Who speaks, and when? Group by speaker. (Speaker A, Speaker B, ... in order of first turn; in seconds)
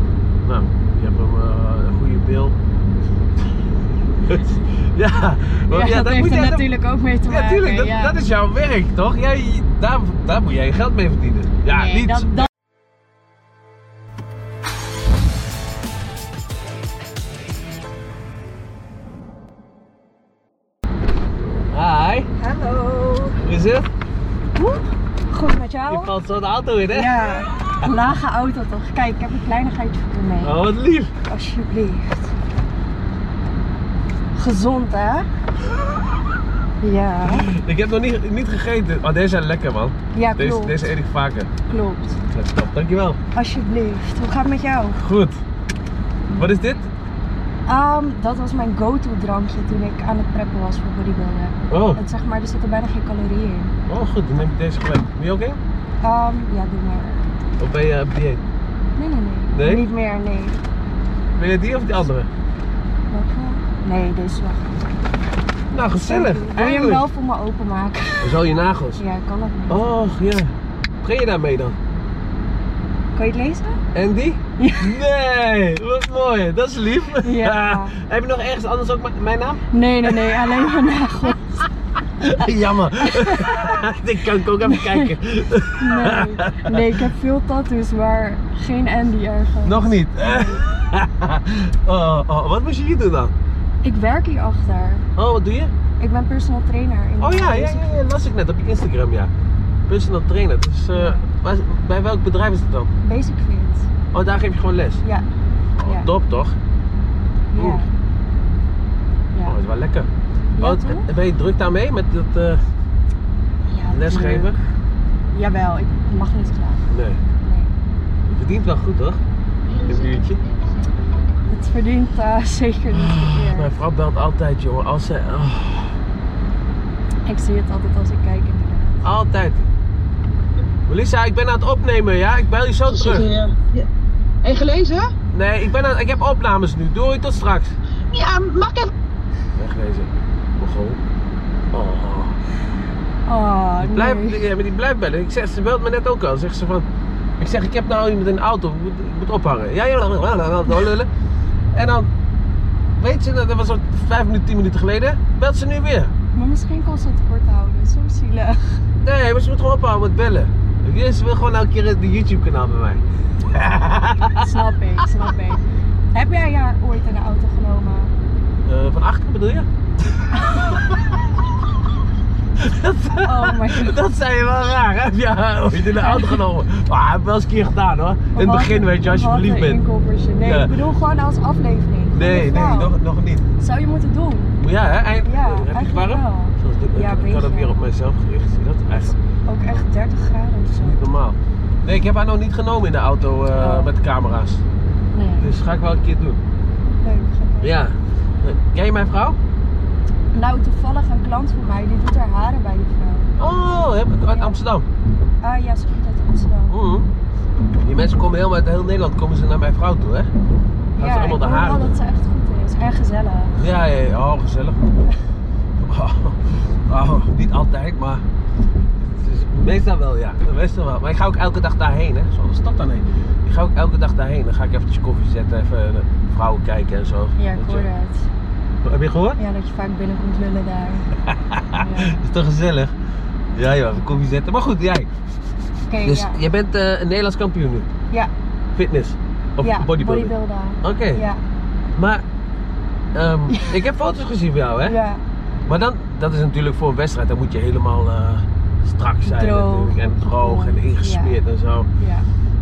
Speaker A: 0.4-2.5, 4.2-6.7, 7.3-12.5, 21.7-22.3, 23.4-23.9, 25.9-27.9, 30.4-31.1, 37.2-41.5, 42.3-43.2, 45.0-45.4, 46.3-46.9, 51.7-52.0, 53.9-55.6, 57.6-58.4, 59.5-59.8, 61.4-62.3, 65.7-67.0, 68.2-69.0, 69.7-71.8, 73.9-80.7, 82.2-87.0, 89.6-93.3, 95.2-95.7, 97.2-99.3, 99.9-102.9, 104.1-105.0, 105.8-106.5, 107.5-107.8, 109.4-112.6, 113.9-114.6, 116.9-117.2, 118.3-119.2, 119.8-120.4, 122.9-126.0, 129.0-129.7, 130.9-133.3, 135.3-137.8, 139.6-141.0, 141.7-142.3, 143.8-146.8, 147.4-151.1, 151.7-152.1, 153.0-156.1, 159.0-164.6, 168.6-171.2, 172.6-179.8, 180.4-180.7, 182.1-183.4, 184.6-189.2, 190.7-194.6, 195.4-196.4, 197.6-199.4, 203.4-204.8, 206.7-207.1, 207.8-210.3, 211.0-211.9, 213.6-214.9, 215.8-218.2, 219.0-227.9, 228.8-229.4, 231.2-232.9, 233.5-235.1, 236.0-237.9, 238.8-241.2, 241.9-242.2, 243.1-245.0, 245.7-251.9
Speaker B: 5.7-8.2, 11.7-12.5, 22.4-23.4, 24.6-26.1, 26.9-30.6, 31.3-32.3, 34.3-35.3, 36.8-37.5, 40.1-40.8, 41.7-42.2, 43.3-45.0, 46.3-46.6, 47.7-53.8, 56.0-57.2, 59.0-60.6, 63.1-64.7, 66.0-68.4, 69.0-69.8, 73.1-73.8, 74.6-75.0, 77.2-78.0, 79.7-81.6, 82.9-83.8, 84.6-85.1, 85.8-90.6, 93.8-95.0, 96.0-98.0, 100.9-101.2, 103.0-103.9, 105.0-105.3, 107.5-107.9, 110.6-111.1, 113.7-114.5, 115.3-116.8, 117.4-117.7, 121.5-123.7, 127.2-129.0, 143.2-144.4, 156.3-158.8, 164.3-165.6, 166.1-168.1, 170.3-170.8, 173.2-174.0, 175.9-176.4, 178.3-182.9, 183.6-184.5, 185.2-187.8, 189.5-191.0, 193.5-193.9, 195.1-195.5, 197.0-197.7, 200.3-203.3, 204.3-204.6, 205.4-206.8, 211.0-213.6, 227.4-228.3, 229.4-231.1, 231.7-232.2, 235.9-236.4, 239.6-241.4, 243.5-243.8, 244.8-245.2, 249.2-251.4, 252.0-252.3
Speaker C: 119.7-120.3, 132.9-133.9, 134.4-135.1, 138.1-138.9